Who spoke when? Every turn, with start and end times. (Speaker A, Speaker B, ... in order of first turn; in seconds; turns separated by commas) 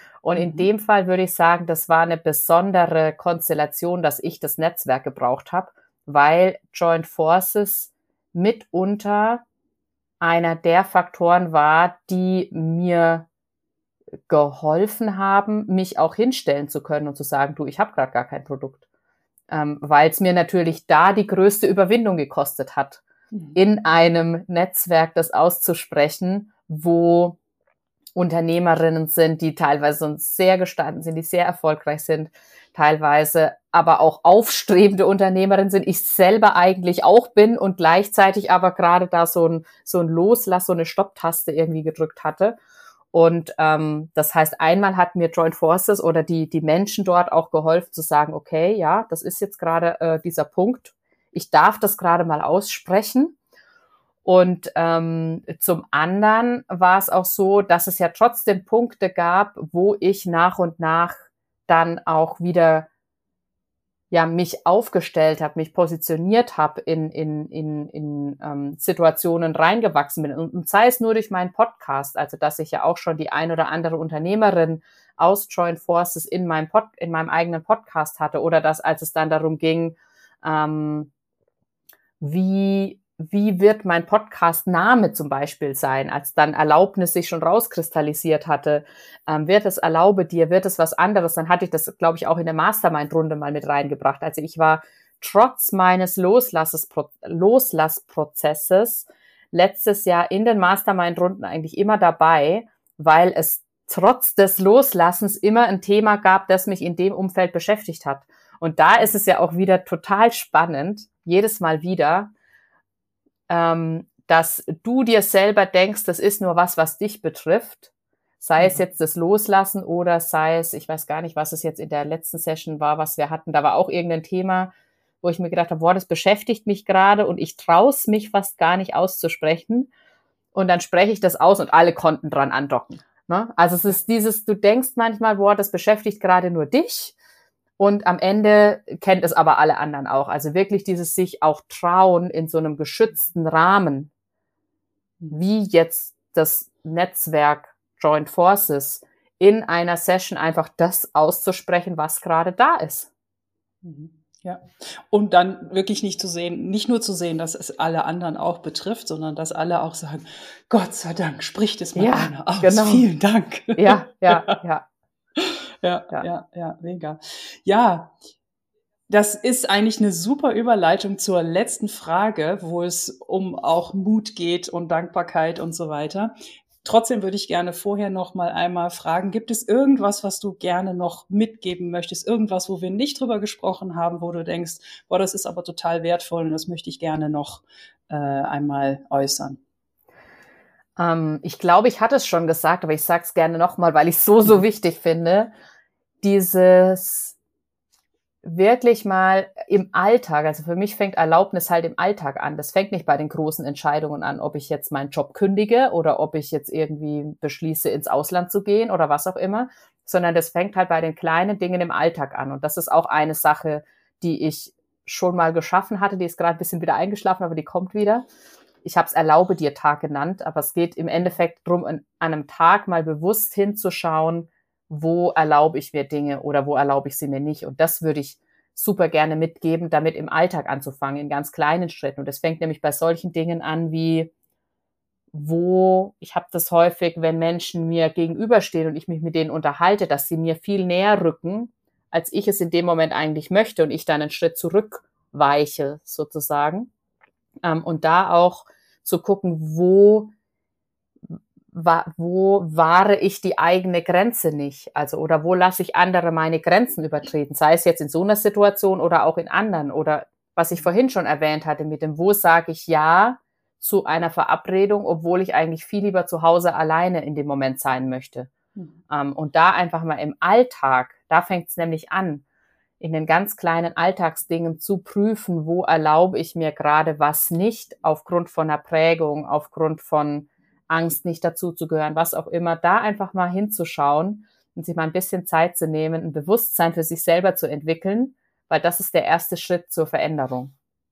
Speaker A: 0.2-9.4, Speaker B: 0.3-0.7, Speaker A: 10.2-13.3, Speaker A: 14.3-18.8, Speaker A: 19.5-23.0, Speaker B: 23.3-23.6, Speaker A: 23.5-27.4, Speaker A: 28.1-42.6, Speaker A: 43.1-53.4, Speaker A: 54.2-62.9, Speaker A: 64.1-81.1, Speaker A: 82.2-112.3, Speaker A: 113.5-117.9, Speaker A: 118.4-129.9, Speaker B: 118.6-118.8, Speaker A: 130.5-137.1, Speaker A: 137.8-144.1, Speaker A: 145.3-153.1, Speaker B: 153.8-164.6, Speaker A: 161.9-163.1, Speaker A: 163.8-164.9, Speaker B: 165.4-168.2, Speaker B: 169.1-189.6, Speaker A: 191.0-195.5, Speaker A: 196.2-197.4, Speaker A: 198.4-218.3, Speaker A: 218.8-234.3, Speaker A: 235.3-246.9, Speaker A: 247.6-250.3, Speaker A: 251.7-268.5, Speaker A: 269.1-272.4, Speaker A: 273.0-290.7